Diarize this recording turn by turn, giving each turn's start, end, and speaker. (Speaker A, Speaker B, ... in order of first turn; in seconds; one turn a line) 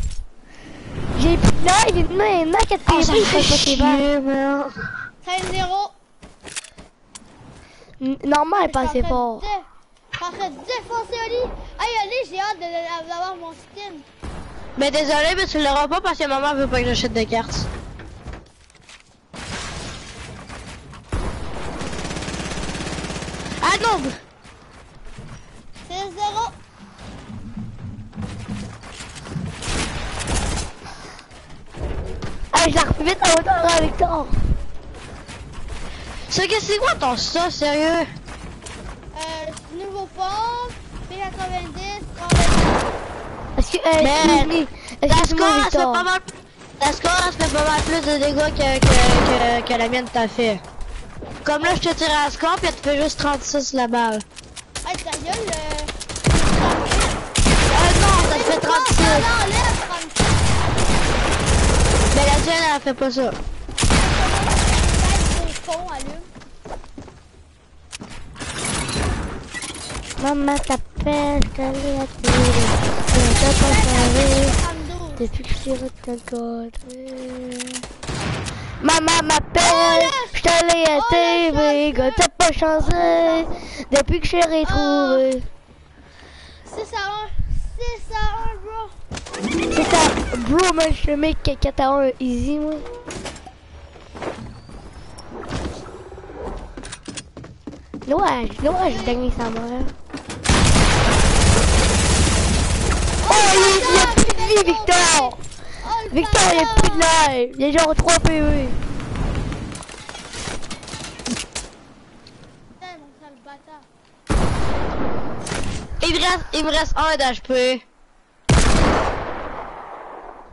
Speaker A: 1.1-4.0
Speaker B: 2.9-4.8
Speaker C: 5.2-5.9
Speaker A: 8.0-9.4
Speaker C: 8.6-9.7
Speaker C: 10.2-14.1
Speaker B: 14.8-17.7
Speaker B: 23.6-24.2
Speaker C: 25.9-26.5
Speaker A: 32.5-34.5
Speaker B: 36.3-38.1
Speaker C: 39.1-43.0
Speaker A: 43.6-46.1
Speaker B: 44.0-44.5
Speaker B: 45.1-46.3
Speaker B: 46.8-50.6
Speaker B: 51.4-54.2
Speaker C: 54.8-57.2
Speaker B: 57.7-59.3
Speaker C: 57.8-60.6
Speaker B: 62.1-63.4
Speaker C: 63.9-66.3
Speaker A: 70.2-74.6
Speaker C: 73.1-75.2
Speaker A: 75.2-77.8
Speaker A: 78.8-85.5
Speaker C: 79.6-80.4
Speaker C: 80.9-83.6
Speaker C: 84.6-85.3
Speaker C: 86.7-88.9
Speaker A: 89.7-92.9
Speaker A: 98.0-99.9
Speaker C: 98.7-99.2
Speaker C: 103.2-107.1
Speaker A: 103.3-105.4
Speaker A: 106.1-108.8
Speaker C: 112.8-113.9
Speaker B: 116.0-117.8